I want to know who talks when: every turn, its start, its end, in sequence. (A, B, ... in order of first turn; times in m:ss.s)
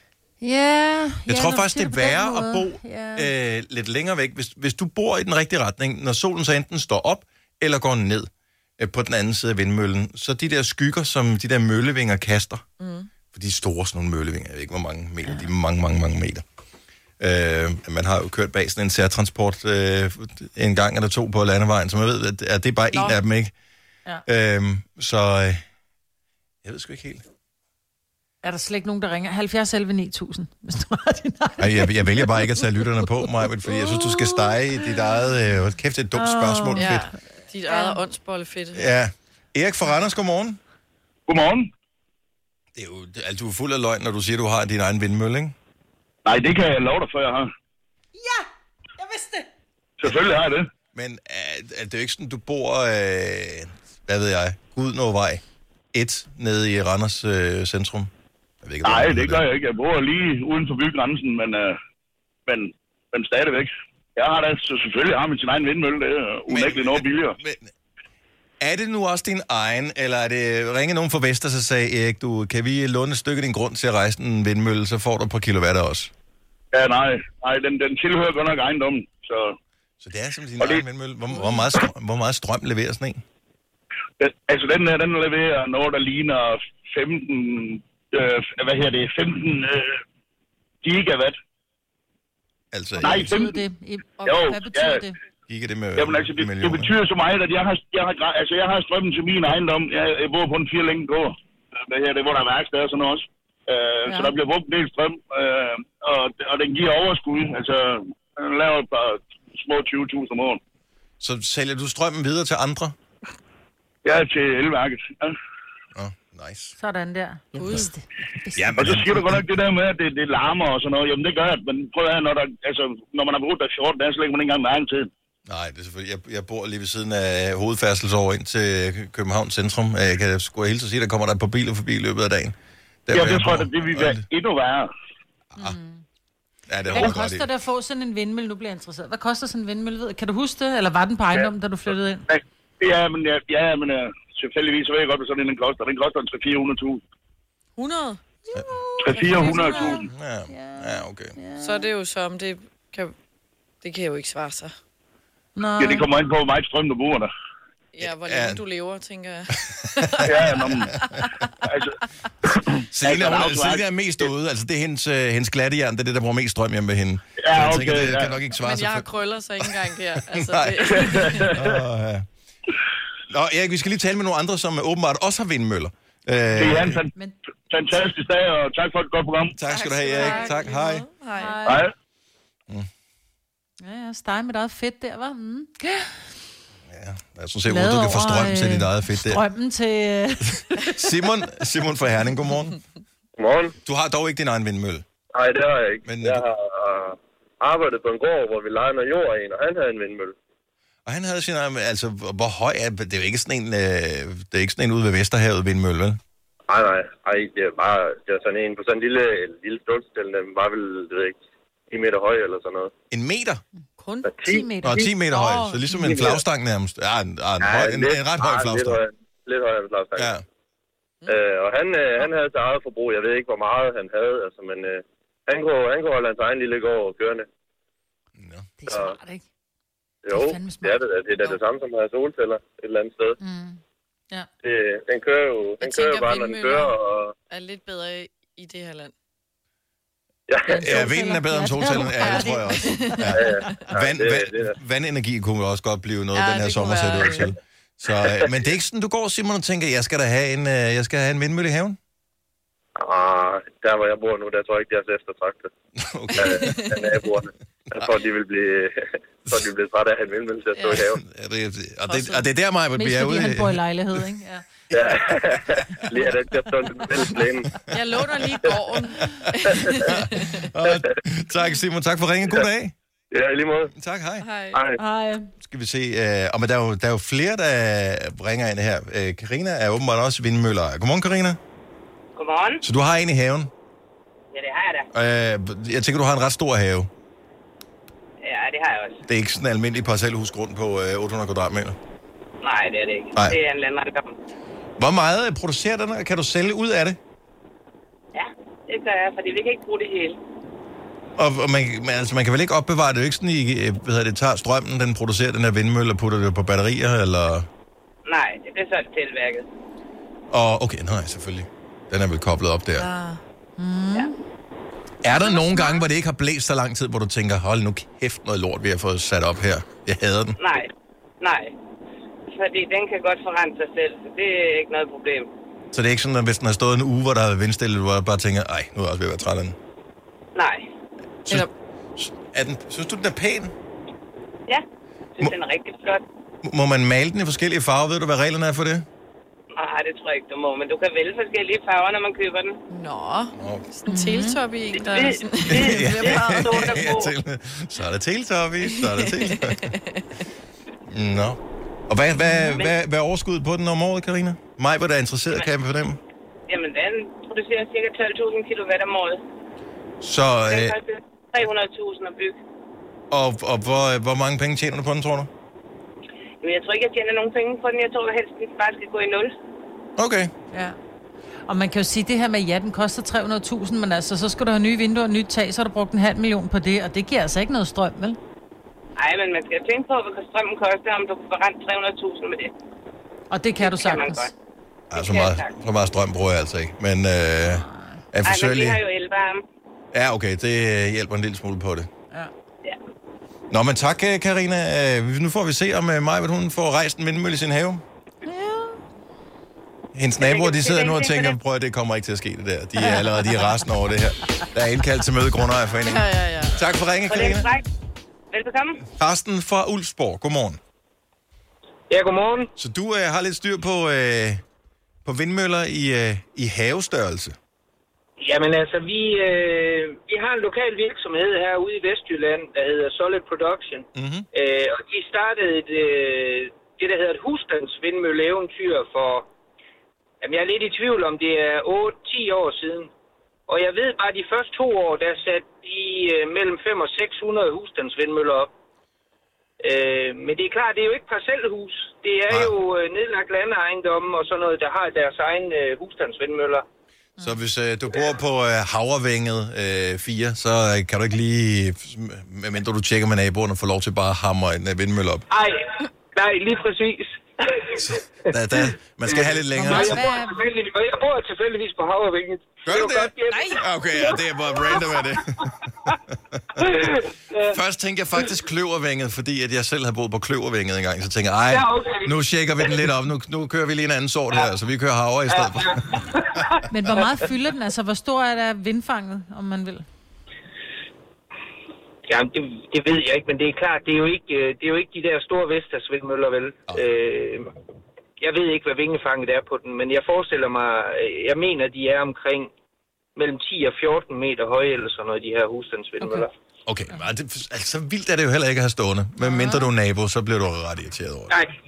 0:00.4-0:03.3 A
0:01.3-0:12.6 B
0:12.8-0:13.1 C
0:13.3-0:16.4 B
0:17.2-0:23.5 B
0:22.9-0:23.2 C
0:24.2-0:25.6 B
0:26.6-0:27.2 B
0:28.4-0:34.5 A
0:31.6-0:37.1 B
0:36.1-0:37.0 A
0:36.8-0:38.9 C
0:37.7-0:38.0 A
0:38.8-0:40.6 B
0:41.3-0:41.7 D
0:42.8-0:45.6 B
0:46.2-0:47.5 D
0:48.2-0:48.4 A
0:49.0-0:49.4 A
0:50.0-0:50.7 D
0:50.9-0:55.4 B
0:55.9-0:58.1 B
0:58.6-0:59.4 B
0:58.8-1:01.8 D
1:02.5-1:07.4 D
1:06.5-1:07.7 B
1:08.6-1:16.1 B
1:16.7-1:19.6 D
1:20.0-1:23.2 B
1:24.2-1:30.0 D
1:30.8-1:31.4 D
1:32.7-1:33.4 B
1:33.0-1:35.2 A
1:33.0-1:33.6 D
1:34.2-1:35.0 D
1:35.5-1:36.9 B
1:36.0-1:41.4 D
1:41.9-1:50.6 D
1:44.1-1:44.3 A
1:51.2-1:53.0 B
1:54.0-1:55.4 D
1:56.0-1:56.8 B
1:56.8-1:58.7 A
1:57.6-1:57.9 C
1:58.6-1:59.4 B
1:58.8-2:05.1 D
2:05.5-2:14.2 B
2:13.1-2:14.9 D
2:15.6-2:16.0 A
2:16.7-2:17.5 B
2:16.9-2:22.3 A
2:22.3-2:27.0 D
2:27.8-2:28.2 C
2:28.5-2:31.9 A
2:29.0-2:30.1 D
2:29.5-2:31.4 B
2:31.6-2:33.1 C
2:33.8-2:34.7 C
2:35.6-2:36.1 A
2:35.8-2:37.3 D
2:37.9-2:40.3 C
2:38.0-2:38.6 B
2:40.0-2:41.2 B
2:40.2-2:40.9 D
2:41.0-2:41.4 C
2:41.6-2:42.0 D
2:42.7-2:43.9 D
2:42.9-2:49.1 B
2:47.4-2:48.4 D
2:48.6-2:51.6 C
2:50.3-2:52.3 B
2:51.0-2:51.7 D
2:53.3-2:57.0 B
2:56.5-2:57.1 D
2:57.7-2:59.6 D
2:59.6-3:01.1 B
2:59.7-3:01.8 C
3:00.2-3:00.6 A
3:01.4-3:01.8 A
3:01.6-3:01.9 D
3:03.8-3:06.3 A
3:06.9-3:09.4 B
3:07.7-3:10.8 A
3:10.7-3:12.8 B
3:13.4-3:13.8 E
3:13.8-3:15.1 B
3:15.3-3:20.4 E
3:16.1-3:16.4 B
3:21.1-3:26.2 B
3:26.7-3:32.9 E
3:33.1-3:33.6 B
3:34.0-3:34.3 C
3:34.3-3:34.6 E
3:34.4-3:35.1 A
3:34.8-3:39.0 B
3:35.3-3:35.9 C
3:35.9-3:36.4 E
3:37.6-3:40.3 E
3:40.2-3:40.4 B
3:41.3-3:47.5 E
3:48.4-3:48.7 B
3:48.8-3:49.4 A
3:48.9-3:49.1 E
3:50.2-3:53.4 E
3:50.3-3:51.6 A
3:53.4-3:54.5 A
3:54.6-3:57.3 E
3:55.8-3:56.9 C
3:57.5-3:59.1 C
4:00.5-4:00.8 E
4:00.6-4:03.8 A
4:00.7-4:12.0 B
4:02.8-4:03.2 C
4:03.3-4:04.7 E
4:06.3-4:07.5 C
4:13.0-4:15.7 E
4:16.0-4:16.8 B
4:16.4-4:21.2 E
4:16.6-4:17.0 C
4:20.8-4:21.0 C
4:20.9-4:23.8 B
4:22.1-4:25.1 A
4:24.9-4:27.8 E
4:27.9-4:30.7 C
4:29.2-4:29.5 B
4:30.0-4:32.9 B
4:33.3-4:33.9 E
4:34.0-4:34.5 B
4:34.4-4:34.8 C
4:35.0-4:35.5 A
4:35.6-4:41.6 B
4:42.4-4:42.8 F
4:42.8-4:43.7 B
4:44.5-4:45.1 F
4:45.1-4:47.1 B
4:48.4-4:49.2 F
4:49.3-4:52.0 B
4:52.6-4:54.4 F
4:55.0-4:57.2 B
4:58.4-5:00.4 F
5:01.4-5:07.7 B
5:08.3-5:09.6 F
5:10.5-5:13.1 B
5:13.0-5:13.4 C
5:13.8-5:14.3 A
5:15.2-5:20.6 B
5:20.6-5:20.9 F
5:21.4-5:21.7 F
5:22.5-5:25.5 F
5:25.9-5:29.8 B
5:30.6-5:30.9 F
5:31.5-5:33.7 B
5:35.4-5:36.2 F
5:36.6-5:39.1 B
5:39.7-5:42.8 F
5:42.9-5:47.0 C
5:43.6-5:43.8 B
5:44.1-5:44.6 A
5:45.0-5:47.3 F
5:45.7-5:49.9 B
5:48.9-5:50.3 C
5:51.1-5:56.2 B
5:56.7-5:59.4 F
6:00.2-6:01.0 B
6:00.7-6:02.6 F
6:03.3-6:05.5 B
6:06.6-6:09.6 F
6:10.2-6:10.5 B
6:11.7-6:18.4 A
6:19.2-6:22.7 F
6:23.5-6:24.5 A
6:23.8-6:24.5 F
6:25.1-6:29.0 B
6:25.1-6:25.7 F
6:28.4-6:29.6 F
6:30.1-6:32.1 B
6:33.7-6:38.0 B
6:38.5-6:39.0 A
6:40.1-6:47.7 B
6:40.4-6:41.6 F
6:46.0-6:46.8 C
6:47.3-6:47.8 F
6:48.5-6:49.0 F
6:49.2-6:50.8 B
6:52.1-6:52.7 G
6:52.8-6:54.6 B
6:55.2-6:57.6 B
6:58.4-7:09.5 G
7:04.1-7:04.5 B
7:10.4-7:13.1 G
7:13.7-7:18.7 G
7:19.8-7:26.8 G
7:22.5-7:22.7 B
7:27.4-7:35.5 B
7:35.5-7:38.1 G
7:37.9-7:40.3 B
7:39.2-7:44.4 G
7:39.7-7:40.6 A
7:42.8-7:46.8 B
7:46.8-7:47.8 G
7:47.7-7:56.6 B
7:51.7-7:53.0 G
7:55.5-7:56.8 G
7:56.9-8:00.0 A
8:02.3-8:07.7 G
8:08.4-8:12.7 G
8:13.4-8:16.5 G
8:16.2-8:16.5 A
8:16.9-8:21.6 B
8:19.4-8:19.9 A